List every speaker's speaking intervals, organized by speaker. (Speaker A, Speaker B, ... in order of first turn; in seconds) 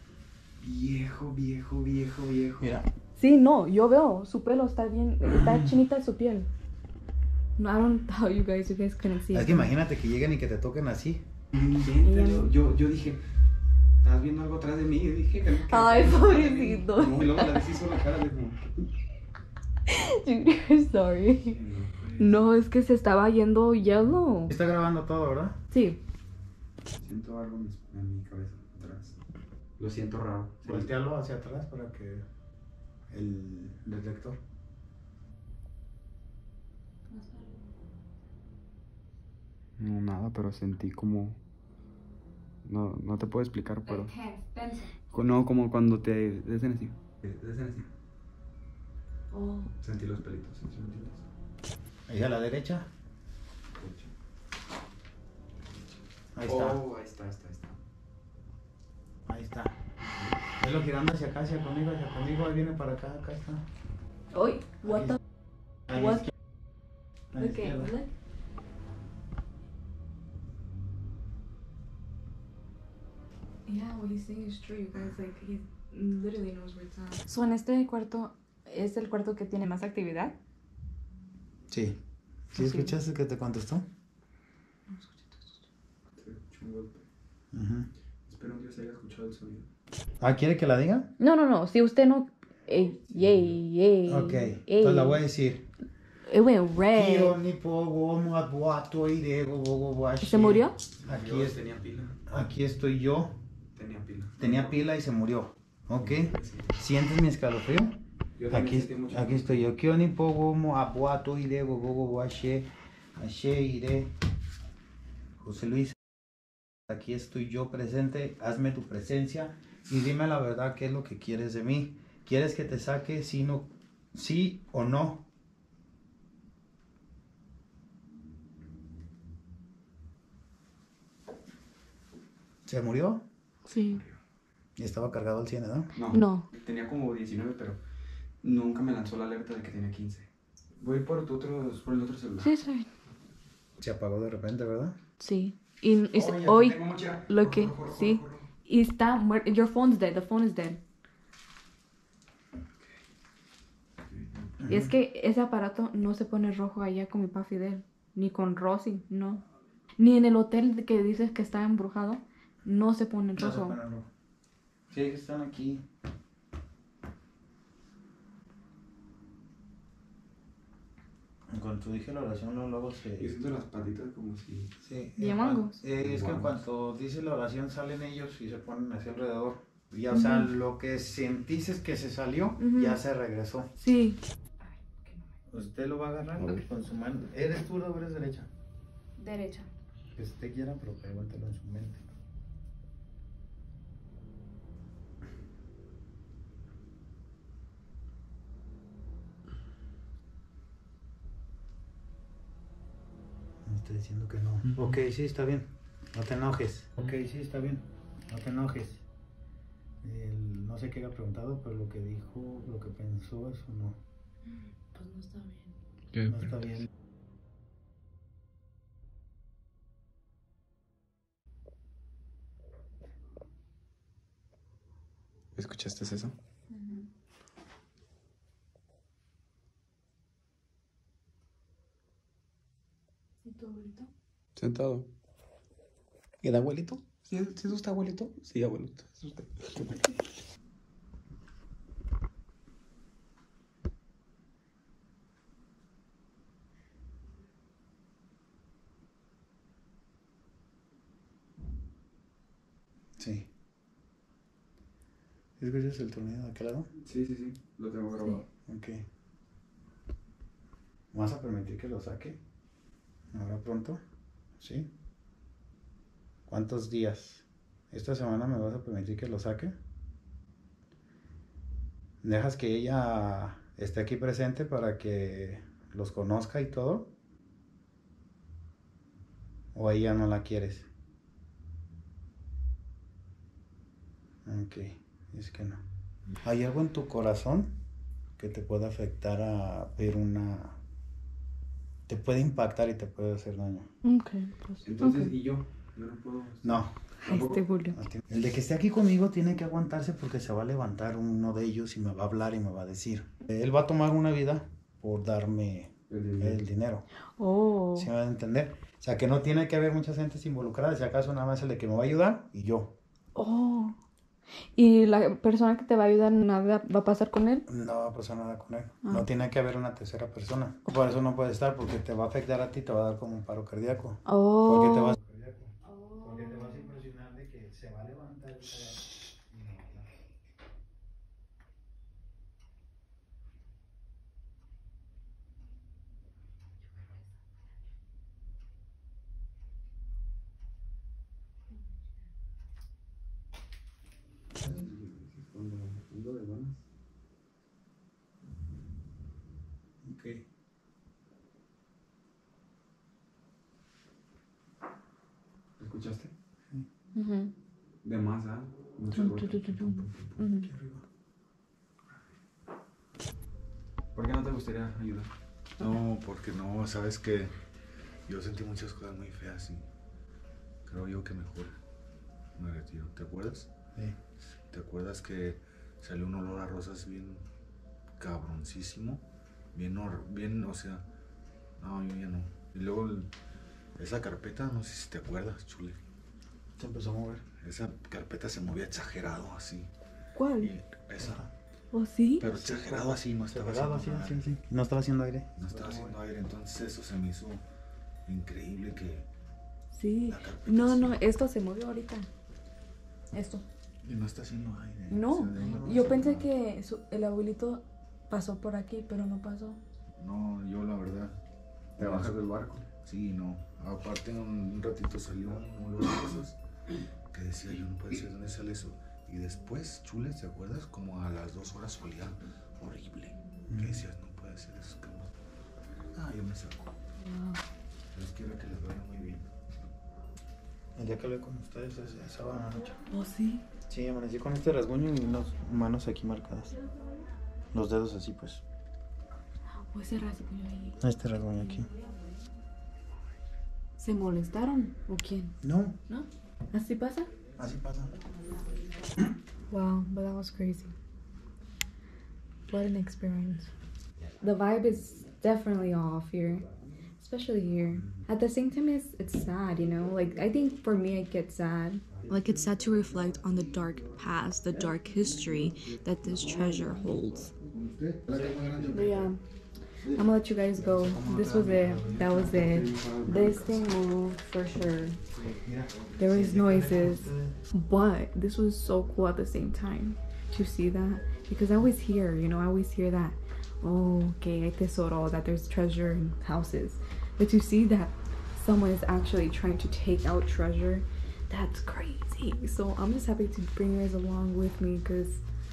Speaker A: 0.6-2.7, 11.5-13.2, 14.0-18.7, 21.4-22.4, 27.0-29.2, 29.8-30.9, 39.8-41.4, 42.6-44.1, 45.1-47.9, 49.8-51.2, 53.8-54.1, 56.4-57.8, 60.1-60.4, 86.2-87.0, 88.3-89.7, 93.2-93.5, 101.0-102.2, 103.8-104.7, 106.0-106.8, 108.4-109.7, 135.9-137.8, 138.4-142.5, 146.1-148.5, 154.1-154.6, 173.1-174.7, 176.0-176.6, 186.4-186.6, 225.6-226.3, 234.6-235.1, 236.4-240.2, 257.0-258.4, 294.8-297.6, 306.1-306.6, 344.6-346.8, 355.8-356.3, 358.0-360.4, 364.1-365.3, 412.0-412.9, 468.3-468.8, 470.8-473.9
Speaker B: 2.6-2.9, 9.3-11.3, 24.5-25.6, 30.6-32.2, 33.1-34.4, 52.1-52.9, 56.3-56.8, 59.3-59.8, 60.6-63.6, 67.3-68.0, 81.7-82.0, 82.5-83.8, 87.5-87.9, 90.2-91.1, 94.1-95.7, 96.9-101.6, 102.3-103.3, 104.4-114.1, 115.4-116.0, 116.9-125.3, 132.7-133.2, 134.8-135.9, 143.8-145.0, 154.6-154.9, 163.4-164.1, 164.9-165.8, 171.5-173.3, 174.8-183.7, 185.5-188.5, 190.2-192.0, 203.7-209.1, 210.0-214.0, 216.3-216.9, 236.6-237.0, 253.2-253.5, 255.6-256.9, 258.7-259.0, 261.1-262.4, 263.3-264.0, 264.6-264.9, 266.5-269.8, 272.2-277.1, 279.7-280.9, 284.4-285.8, 286.4-287.8, 288.4-290.8, 292.1-293.9, 296.6-296.9, 297.9-307.1, 307.9-312.9, 317.7-330.1, 350.0-350.4, 360.5-361.0, 386.8-387.4, 391.2-391.5, 392.5-396.2, 405.6-406.0, 423.7-424.1, 431.0-433.0, 433.9-436.8, 437.7-438.6, 441.0-441.9, 445.6-446.0, 447.6-448.2, 468.3-469.1, 475.6-477.6
Speaker C: 3.2-6.5, 7.6-9.7, 12.0-12.5, 15.7-17.6, 19.9-21.6, 22.2-24.5, 25.7-26.0, 37.1-37.6, 43.9-44.9, 49.3-49.7, 64.3-65.2, 65.9-66.3, 67.4-68.1, 73.7-80.4, 82.5-83.0, 84.9-85.6, 91.2-95.2, 96.3-97.4, 100.2-100.8, 133.7-134.0, 136.1-136.5, 142.4-142.9, 145.2-150.8, 154.7-159.4, 160.0-163.8, 175.2-175.8, 180.1-180.5, 182.6-183.0, 183.8-185.2, 189.2-189.7, 214.8-215.7, 226.7-227.1, 233.4-234.1, 294.0-295.3, 297.2-298.0, 307.4-308.1, 313.4-314.0, 314.8-317.6, 319.0-319.3, 324.3-325.1, 325.8-326.9, 357.1-357.5, 359.1-360.7, 390.3-390.7, 391.9-392.5, 399.9-402.3, 403.3-403.6, 405.1-409.8, 427.2-427.6, 433.1-433.6, 439.7-441.0, 444.0-445.6, 446.1-447.3, 449.7-450.9, 452.7-453.7, 454.4-456.7, 457.2-467.5, 468.9-469.4, 470.1-475.2, 476.2-495.4
Speaker D: 365.8-367.6, 368.3-369.9, 370.9-371.8, 372.6-373.7, 374.7-377.5, 378.2-381.1, 381.8-383.3, 384.0-386.0, 387.6-389.9, 390.6-391.4, 392.4-394.5, 395.6-397.6, 398.3-399.3, 400.3-401.3, 404.0-406.5, 410.2-411.4, 412.0-412.4, 413.0-416.6, 417.3-425.3, 426.1-426.8, 428.1-429.5, 467.7-469.0